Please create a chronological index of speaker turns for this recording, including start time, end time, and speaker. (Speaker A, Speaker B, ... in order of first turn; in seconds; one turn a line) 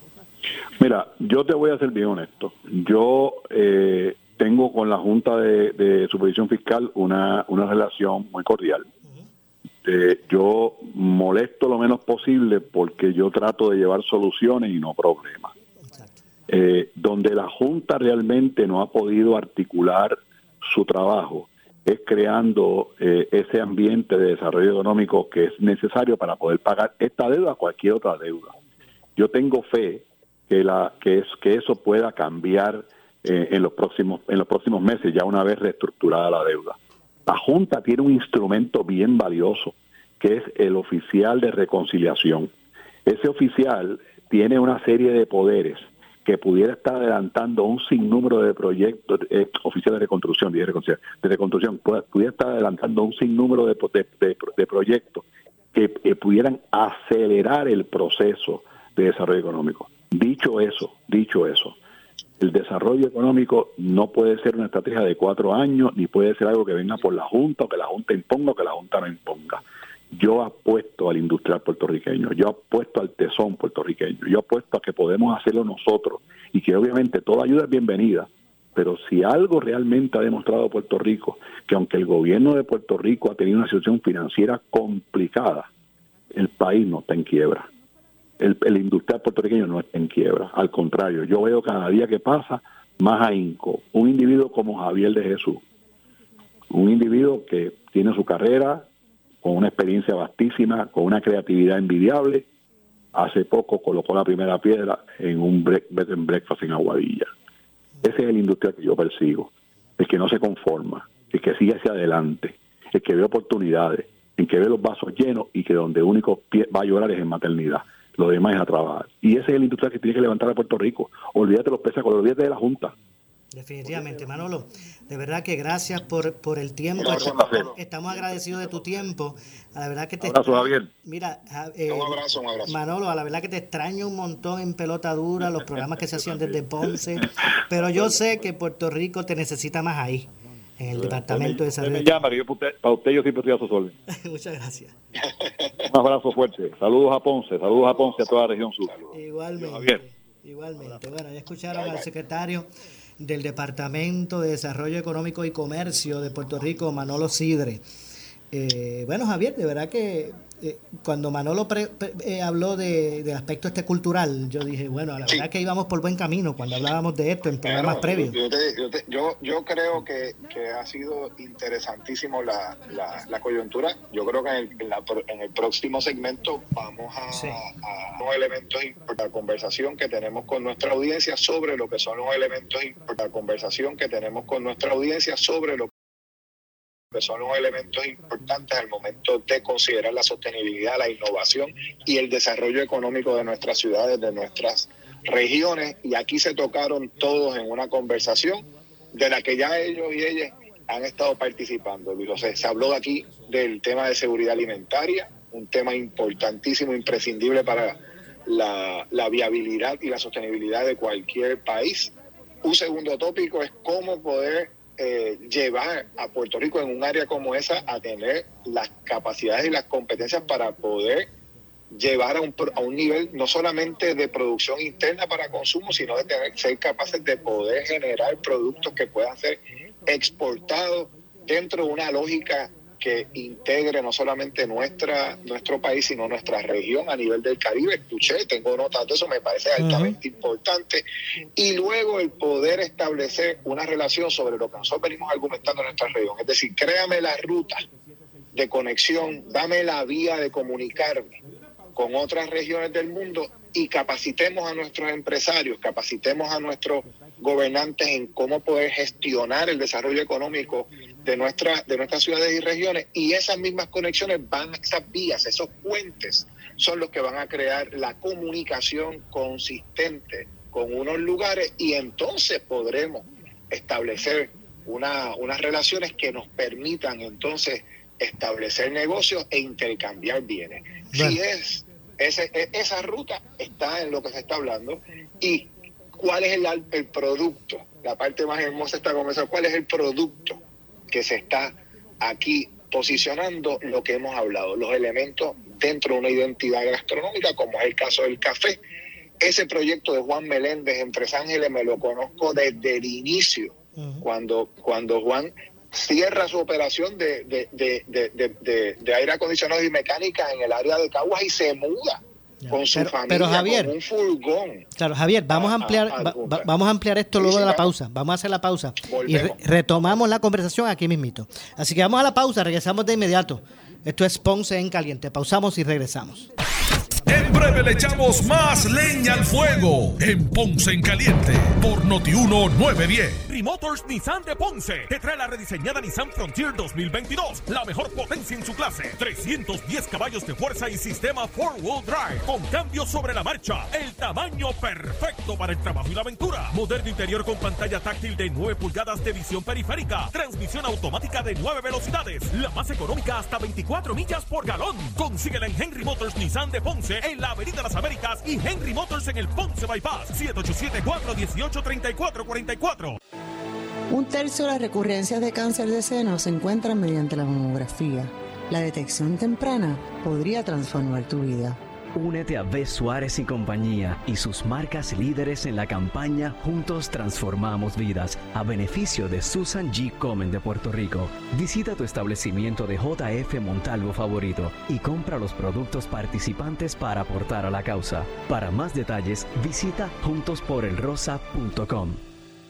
Speaker A: 0.8-8.9
Speaker A: 9.8-15.5
Speaker B: 15.9-16.2
Speaker A: 16.5-28.6
Speaker A: 29.2-42.5
Speaker A: 43.1-61.8
Speaker A: 62.4-85.7
Speaker A: 86.3-87.7
Speaker A: 88.4-95.6
Speaker A: 96.7-98.9
Speaker A: 99.4-102.5
Speaker A: 103.1-107.3
Speaker A: 108.0-123.0
Speaker B: 123.5-142.2
Speaker C: 127.0-127.8
Speaker A: 127.1-127.6
Speaker A: 130.2-130.9
Speaker C: 131.9-132.8
Speaker A: 135.8-138.2
Speaker A: 140.9-143.9
Speaker B: 144.1-144.9
Speaker A: 145.8-148.9
Speaker C: 147.9-149.2
Speaker B: 149.1-157.8
Speaker A: 149.6-150.0
Speaker C: 151.7-152.0
Speaker B: 158.5-168.4
Speaker C: 167.7-185.9
Speaker B: 177.3-177.6
Speaker C: 187.1-212.1
Speaker C: 212.6-221.3
Speaker C: 221.9-241.0
Speaker B: 239.8-240.2
Speaker C: 241.6-247.8
Speaker C: 248.5-251.3
Speaker C: 251.9-290.6
Speaker B: 281.1-281.4
Speaker C: 291.1-298.8
Speaker C: 299.4-312.2
Speaker B: 304.0-304.3
Speaker B: 312.6-313.9
Speaker C: 312.7-314.9
Speaker B: 315.0-326.5
Speaker C: 315.5-316.7
Speaker C: 317.4-317.9
Speaker C: 319.1-319.6
Speaker D: 327.3-333.4
Speaker E: 333.5-363.2
Speaker F: 364.1-371.8
Speaker G: 372.1-392.2